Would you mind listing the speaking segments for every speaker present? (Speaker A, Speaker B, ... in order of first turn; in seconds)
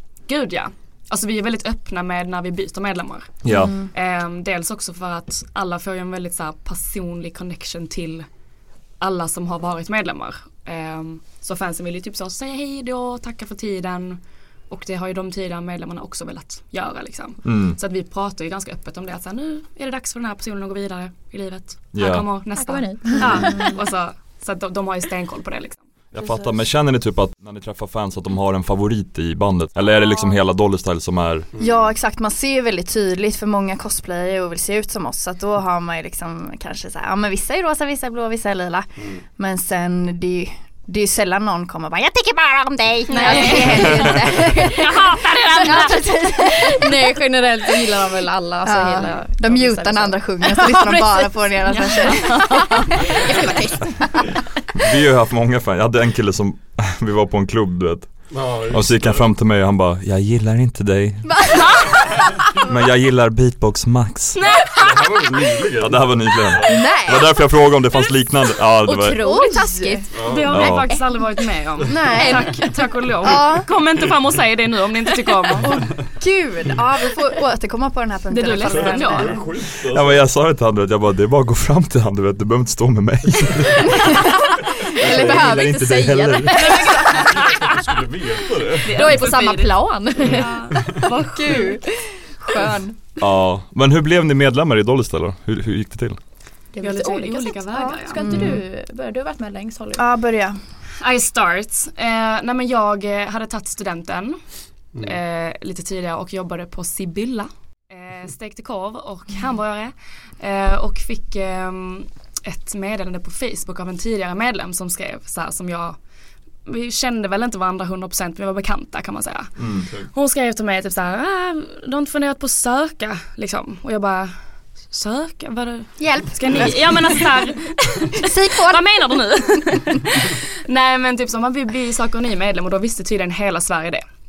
Speaker A: 0.3-8.3, 9.0-25.8, 43.1-44.1, 44.7-46.1, 51.7-52.9, 64.3-65.1, 70.2-75.7, 78.3-79.4, 86.5-87.9, 88.8-91.8, 96.8-98.3, 101.0-104.4, 105.0-116.0, 116.6-119.5, 120.1-124.3, 124.9-134.0
Speaker B: 3.4-3.8, 17.4-17.8, 21.9-22.3, 26.1-31.5, 54.8-58.1, 58.7-61.6, 62.6-64.4, 65.8-69.2, 70.5-70.9, 79.9-84.2, 85.0-86.8, 93.2-96.2, 119.6-119.9
Speaker C: 3.5-3.9, 31.6-46.9, 48.6-53.0, 66.7-67.3, 69.3-70.0, 71.9-73.7, 75.6-79.4, 85.1-85.4, 91.0-91.8, 92.4-92.9, 98.2-98.6, 100.0-100.6, 126.0-127.3, 128.2-128.8
Speaker D: 22.5-23.8, 43.1-44.9, 45.6-54.4, 61.2-62.5, 68.8-71.2, 83.9-87.3, 88.8-91.8, 92.5-92.8, 96.7-100.0
Speaker E: 58.3-59.3, 64.7-66.9, 70.1-70.6, 78.6-80.2, 87.4-89.1